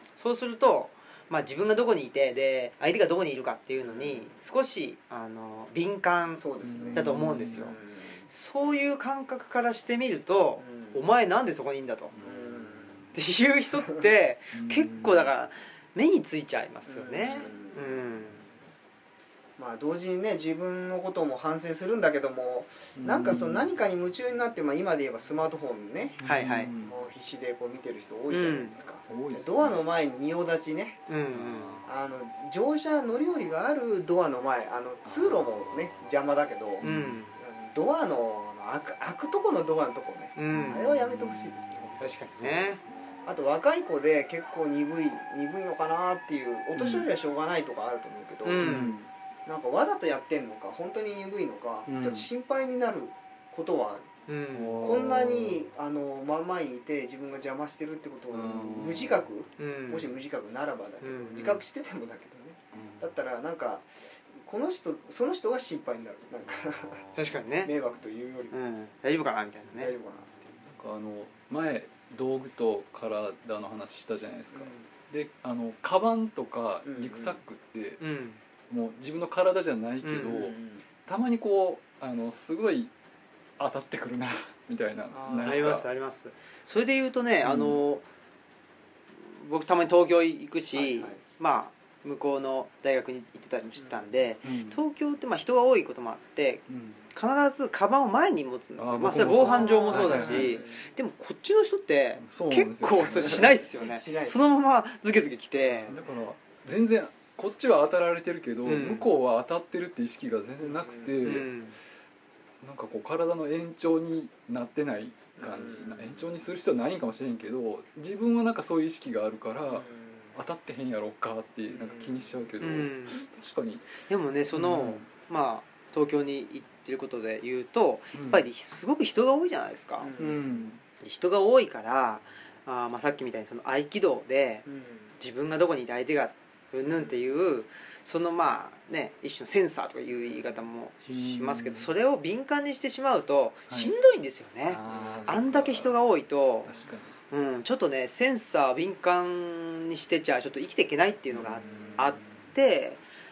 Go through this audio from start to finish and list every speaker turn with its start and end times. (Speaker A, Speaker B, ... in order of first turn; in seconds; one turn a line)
Speaker A: 0.2-6.4
Speaker B: 3.8-4.3
Speaker B: 6.4-8.3
Speaker C: 6.6-7.7
Speaker A: 7.0-7.8
Speaker A: 8.3-12.1
Speaker B: 10.6-11.0
Speaker C: 12.1-13.1
Speaker B: 12.2-13.0
Speaker A: 13.1-18.4
Speaker C: 14.5-15.3
Speaker B: 16.9-18.0
Speaker B: 19.6-31.0
Speaker C: 22.9-23.8
Speaker C: 26.2-27.0
Speaker A: 26.2-26.7
Speaker A: 28.3-28.8
Speaker C: 29.1-29.9
Speaker A: 31.1-31.8
Speaker C: 31.3-31.9
Speaker B: 31.9-36.9
Speaker C: 35.0-36.1
Speaker C: 36.8-37.2
Speaker A: 36.8-37.4
Speaker B: 37.4-42.1
Speaker A: 40.4-40.9
Speaker C: 40.5-42.9
Speaker A: 42.0-42.8
Speaker B: 43.2-48.8
Speaker C: 46.8-47.1
Speaker A: 48.4-49.0
Speaker C: 48.6-49.1
Speaker B: 49.5-54.1
Speaker C: 51.9-52.3
Speaker A: 54.3-54.8
Speaker C: 54.5-55.7
Speaker B: 54.8-67.0
Speaker C: 58.3-59.3
Speaker A: 59.6-60.1
Speaker A: 61.0-61.6
Speaker C: 62.7-63.1
Speaker C: 66.8-67.2
Speaker A: 67.2-67.7
Speaker B: 67.6-68.5
Speaker A: 68.5-69.9
Speaker B: 69.8-70.6
Speaker C: 70.7-78.0
Speaker B: 74.5-74.8
Speaker B: 76.9-77.4
Speaker A: 78.0-78.4
Speaker C: 78.7-82.9
Speaker A: 80.0-80.4
Speaker B: 80.3-80.8
Speaker C: 83.6-85.9
Speaker B: 85.1-85.8
Speaker A: 85.4-88.0
Speaker C: 87.4-87.8
Speaker A: 89.2-96.6
Speaker B: 90.7-91.2
Speaker B: 93.8-94.1
Speaker C: 94.4-94.8
Speaker C: 96.7-97.0
Speaker A: 97.1-105.9
Speaker C: 98.8-100.6
Speaker B: 99.1-100.8
Speaker C: 102.2-103.7
Speaker B: 103.2-104.5
Speaker B: 105.6-106.0
Speaker C: 105.9-111.5
Speaker A: 108.6-109.1
Speaker B: 110.6-111.2
Speaker A: 111.2-111.8
Speaker C: 112.6-123.9
Speaker B: 115.4-116.3
Speaker B: 119.7-120.3
Speaker B: 121.7-122.3
Speaker A: 122.6-123.2
Speaker A: 124.1-130.1
Speaker C: 124.5-125.1
Speaker C: 128.1-128.5
Speaker B: 130.0-130.6
Speaker C: 130.2-130.8
Speaker A: 131.0-134.7
Speaker B: 134.7-135.2
Speaker A: 135.2-146.7
Speaker C: 141.1-141.9
Speaker C: 144.6-146.0
Speaker B: 144.9-145.4
Speaker C: 146.6-147.1
Speaker A: 147.3-153.0
Speaker C: 151.3-152.4